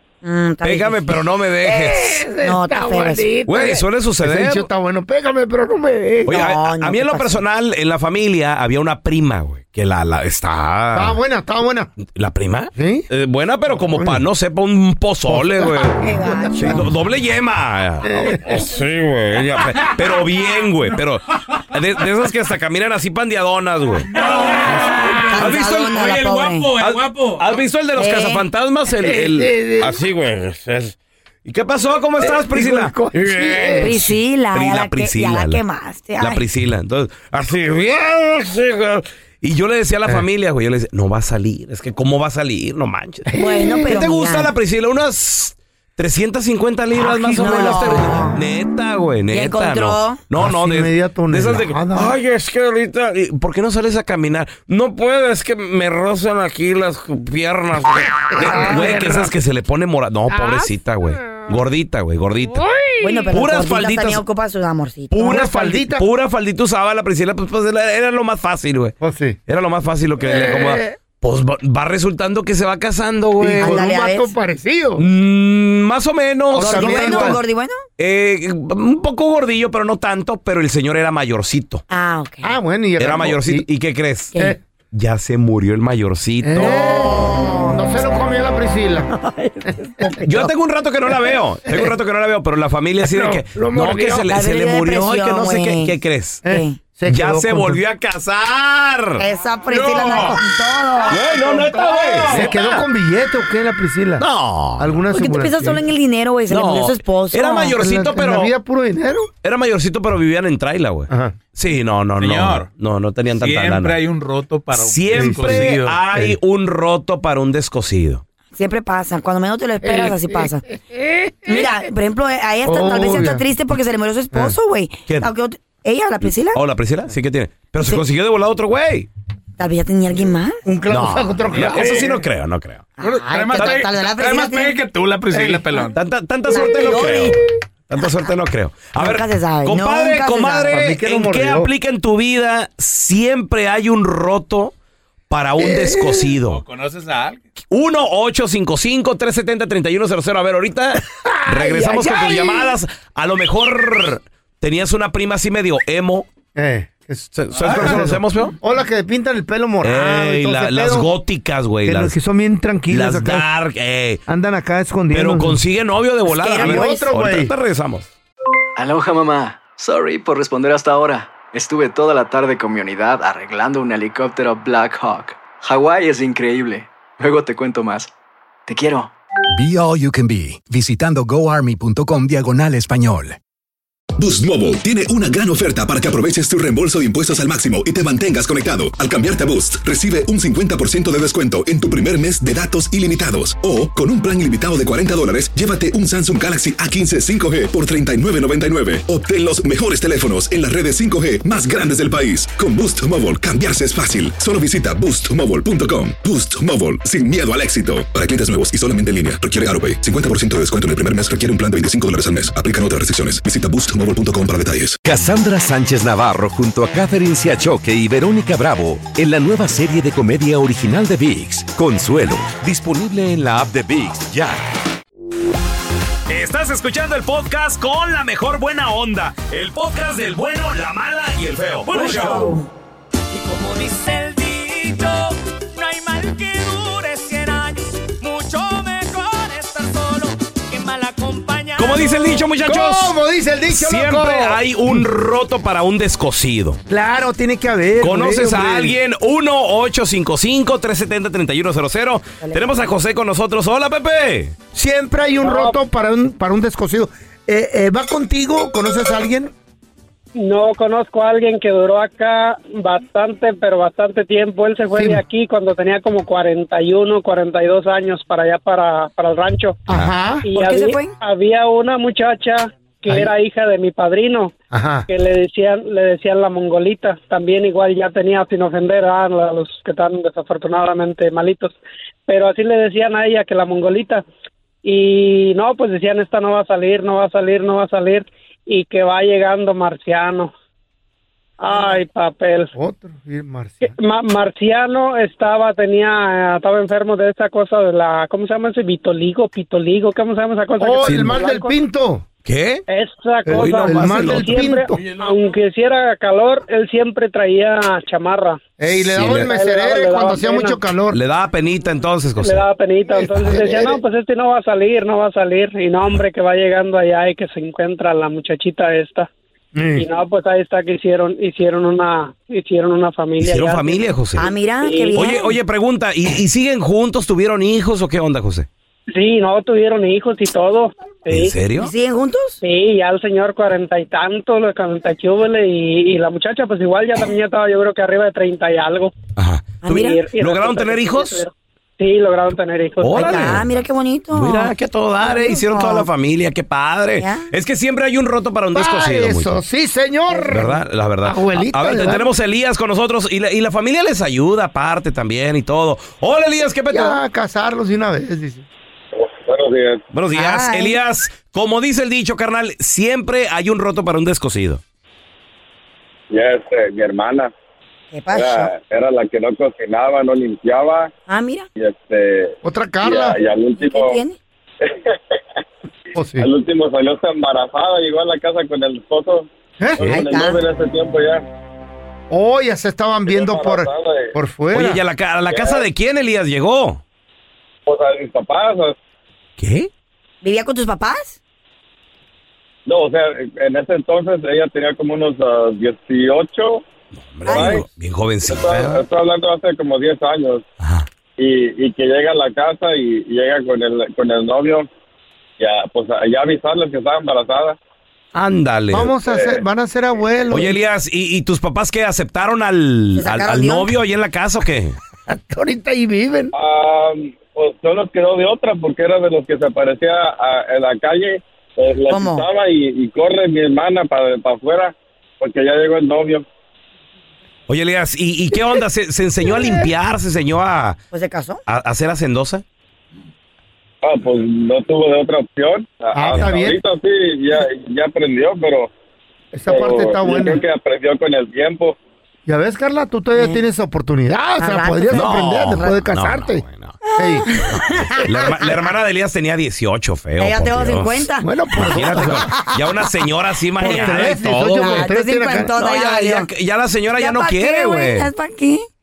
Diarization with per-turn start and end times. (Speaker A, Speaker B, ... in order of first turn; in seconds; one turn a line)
Speaker A: 0.2-1.2
Speaker B: 0.6-2.2
Speaker C: 1.6-6.4
Speaker A: 2.4-3.3
Speaker B: 3.5-4.7
Speaker B: 6.2-11.2
Speaker A: 6.3-7.4
Speaker C: 10.9-11.9
Speaker B: 12.0-16.0
Speaker C: 12.7-13.1
Speaker C: 13.9-14.2
Speaker C: 15.3-16.8
Speaker A: 15.8-16.8
Speaker B: 16.5-24.8
Speaker C: 18.0-18.6
Speaker D: 24.1-27.6
Speaker A: 24.2-26.7
Speaker C: 24.4-25.4
Speaker B: 25.4-25.9
Speaker B: 26.8-35.6
Speaker A: 28.0-28.4
Speaker C: 29.0-30.0
Speaker C: 32.2-34.0
Speaker A: 33.8-36.4
Speaker B: 36.2-43.2
Speaker C: 43.3-44.0
Speaker A: 43.3-44.5
Speaker B: 43.9-62.6
Speaker A: 47.0-48.4
Speaker C: 47.0-48.3
Speaker A: 49.3-50.2
Speaker C: 50.4-52.1
Speaker C: 58.2-59.3
Speaker A: 58.4-58.9
Speaker C: 60.3-60.6
Speaker C: 62.8-63.2
Speaker A: 63.0-65.4
Speaker B: 63.3-64.2
Speaker B: 65.1-69.0
Speaker C: 65.2-66.1
Speaker C: 69.0-69.4
Speaker B: 69.5-73.9
Speaker C: 70.2-70.9
Speaker C: 73.4-75.0
Speaker A: 73.6-74.3
Speaker B: 75.0-77.4
Speaker C: 76.5-77.4
Speaker A: 76.5-77.8
Speaker B: 78.0-81.8
Speaker A: 81.9-82.5
Speaker C: 82.4-83.7
Speaker B: 83.0-84.3
Speaker B: 84.9-86.8
Speaker C: 86.4-89.1
Speaker A: 86.6-87.8
Speaker A: 89.1-90.5
Speaker C: 89.7-90.1
Speaker B: 90.2-96.4
Speaker C: 93.0-94.3
Speaker A: 94.3-95.9
Speaker C: 96.4-97.8
Speaker A: 96.5-96.8
Speaker B: 97.1-99.2
Speaker A: 99.2-101.2
Speaker B: 99.8-100.3
Speaker B: 101.1-102.8
Speaker C: 101.4-104.2
Speaker B: 104.2-105.0
Speaker C: 104.8-105.8
Speaker A: 105.1-107.8
Speaker B: 106.5-108.5
Speaker C: 107.8-109.3
Speaker B: 109.4-114.0
Speaker C: 111.1-111.3
Speaker D: 112.2-112.7
Speaker D: 113.3-116.0
Speaker B: 114.7-118.2
Speaker C: 115.1-116.3
Speaker A: 118.5-120.6
Speaker C: 119.8-121.7
Speaker A: 121.5-126.6
Speaker C: 122.6-123.4
Speaker B: 126.5-129.1
Speaker A: 129.6-130.6
Speaker C: 130.6-132.2
Speaker B: 130.9-132.9
Speaker D: 131.5-132.0
Speaker A: 133.0-134.8
Speaker D: 133.0-135.9
Speaker B: 133.5-133.8
Speaker C: 135.3-135.8
Speaker B: 135.9-137.4
Speaker A: 136.5-137.3
Speaker B: 137.9-144.7
Speaker A: 138.0-138.3
Speaker A: 139.0-140.8
Speaker C: 140.7-141.7
Speaker B: 145.3-146.6
Speaker C: 145.6-146.3
Speaker D: 146.4-147.4
Speaker B: 147.7-156.3
Speaker C: 151.1-152.8
Speaker C: 156.5-161.1
Speaker B: 157.3-158.5
Speaker D: 157.6-158.0
Speaker B: 159.8-162.2
Speaker C: 161.8-163.5
Speaker B: 162.9-164.2
Speaker C: 164.3-165.6
Speaker B: 165.1-168.1
Speaker A: 166.3-167.1
Speaker C: 166.5-167.5
Speaker E: 168.8-178.1
Speaker E: 178.7-179.1
Speaker F: 179.5-183.4
Speaker G: 184.2-215.0
Speaker H: 215.1-224.6
Speaker B: 226.3-232.6
Speaker A: 231.9-232.7
Speaker I: 233.3-242.4
Speaker B: 241.8-243.1
Speaker C: 242.6-245.1
Speaker B: 243.7-246.8
Speaker C: 246.9-249.0
Speaker B: 248.0-254.5
Speaker A: 252.4-252.7
Speaker C: 254.7-259.5
Speaker J: 255.4-255.8
Speaker J: 260.4-269.8
Speaker C: 264.9-265.2
Speaker C: 269.9-270.4
Speaker J: 270.4-274.5
Speaker A: 270.5-271.1
Speaker C: 273.1-273.3
Speaker C: 274.7-275.1
Speaker J: 275.1-284.2
Speaker J: 284.8-290.5
Speaker J: 291.6-292.7
Speaker C: 292.7-293.9
Speaker J: 293.8-301.7
Speaker C: 300.8-302.2
Speaker B: 301.0-301.4
Speaker B: 302.4-302.8
Speaker J: 302.9-308.6
Speaker C: 303.4-305.0
Speaker B: 303.5-304.5
Speaker C: 308.8-311.2
Speaker B: 309.0-309.5
Speaker J: 309.2-310.8
Speaker B: 311.1-312.6
Speaker J: 312.4-319.3
Speaker C: 313.1-314.0
Speaker C: 319.7-320.1
Speaker J: 319.9-324.0
Speaker B: 323.4-324.5
Speaker A: 324.4-325.5
Speaker J: 324.8-325.3
Speaker B: 325.1-328.7
Speaker J: 329.1-331.5
Speaker B: 331.3-331.9
Speaker A: 331.7-332.6
Speaker J: 332.6-339.1
Speaker B: 339.4-341.4
Speaker A: 339.8-340.2
Speaker J: 339.9-343.6
Speaker B: 343.0-343.6
Speaker A: 343.1-344.7
Speaker B: 344.3-349.6
Speaker A: 345.2-346.1
Speaker A: 347.2-347.5
Speaker C: 348.7-352.3
Speaker B: 350.5-357.2
Speaker C: 356.9-358.6
Speaker K: 359.2-360.0
Speaker B: 360.1-364.8
Speaker A: 360.3-361.0
Speaker K: 366.3-367.5
Speaker A: 368.1-368.7
Speaker K: 368.3-371.1
Speaker A: 371.3-371.7
Speaker K: 371.8-374.2
Speaker C: 372.6-373.4
Speaker A: 373.8-374.4
Speaker K: 374.8-375.2
Speaker C: 376.1-376.5
Speaker K: 376.4-379.5
Speaker C: 379.8-380.0
Speaker A: 380.0-380.6
Speaker K: 380.0-381.4
Speaker C: 382.3-385.0
Speaker K: 383.3-384.3
Speaker B: 384.7-387.0
Speaker K: 385.5-385.8
Speaker K: 387.9-388.9
Speaker B: 389.6-389.9
Speaker A: 390.4-391.4
Speaker K: 392.9-396.8
Speaker B: 397.1-399.0
Speaker A: 397.5-397.8
Speaker K: 397.5-397.9
Speaker K: 398.4-400.6
Speaker B: 400.8-401.1
Speaker K: 401.4-404.9
Speaker K: 405.6-407.8
Speaker B: 408.3-409.1
Speaker C: 408.9-410.8
Speaker K: 409.3-409.6
Speaker B: 410.5-415.0
Speaker A: 413.2-413.9
Speaker C: 415.3-416.5
Speaker K: 416.5-426.4
Speaker A: 422.1-422.4
Speaker B: 427.7-431.0
Speaker A: 431.1-431.6
Speaker B: 431.7-432.6
Speaker K: 434.0-438.9
Speaker C: 436.1-436.8
Speaker C: 439.5-440.6
Speaker K: 439.7-442.0
Speaker C: 442.4-446.6
Speaker A: 443.3-443.6
Speaker A: 444.6-446.0
Speaker B: 445.1-447.0
Speaker C: 447.1-447.5
Speaker A: 447.2-448.7
Speaker B: 448.2-455.1
Speaker A: 450.4-452.8
Speaker C: 451.4-452.6
Speaker C: 453.8-455.7
Speaker A: 453.8-456.5
Speaker B: 455.7-458.3
Speaker A: 457.2-458.9